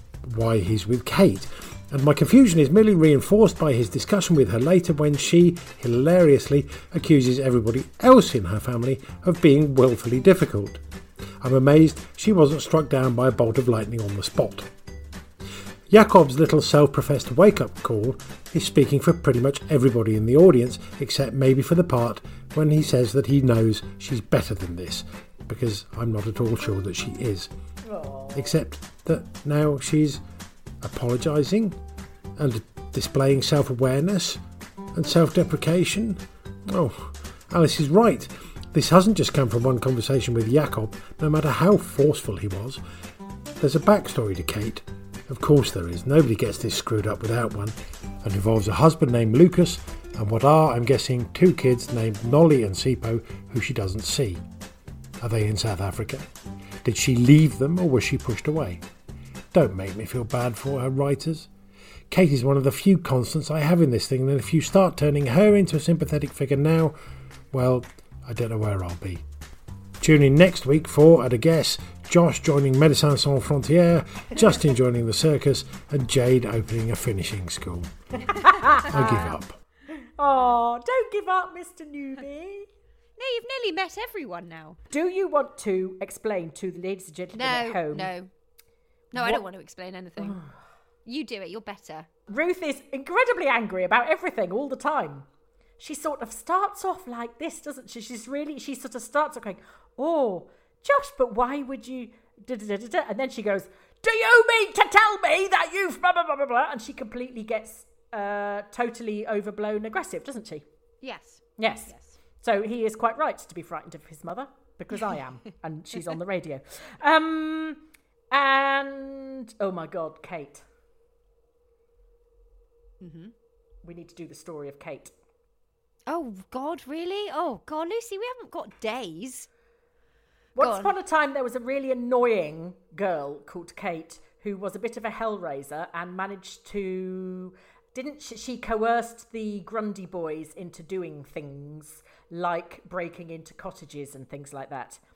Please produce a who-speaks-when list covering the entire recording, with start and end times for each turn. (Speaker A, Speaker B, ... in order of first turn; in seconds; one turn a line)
Speaker A: 0.3-10.8
Speaker A: 11.4-14.7
Speaker A: 15.9-27.5
Speaker B: 27.8-28.6
Speaker A: 28.3-30.2
Speaker A: 30.8-31.8
Speaker A: 32.4-34.4
Speaker A: 35.0-42.8
Speaker A: 43.6-54.4
Speaker A: 55.2-56.3
Speaker A: 56.8-58.8
Speaker A: 59.5-61.5
Speaker A: 62.1-67.0
Speaker A: 67.5-69.2
Speaker A: 70.0-77.9
Speaker B: 78.2-79.3
Speaker C: 78.7-79.1
Speaker A: 78.8-79.6
Speaker B: 80.0-82.7
Speaker C: 83.2-84.8
Speaker B: 84.9-88.1
Speaker C: 87.3-88.3
Speaker C: 89.1-90.4
Speaker B: 89.1-89.5
Speaker B: 90.2-90.5
Speaker C: 91.0-92.1
Speaker B: 92.3-95.3
Speaker B: 95.8-110.7
Speaker C: 111.0-112.2
Speaker B: 111.6-120.7
Speaker C: 123.0-123.3
Speaker B: 123.8-125.1
Speaker C: 126.1-129.5
Speaker B: 130.6-145.0
Speaker C: 130.6-130.9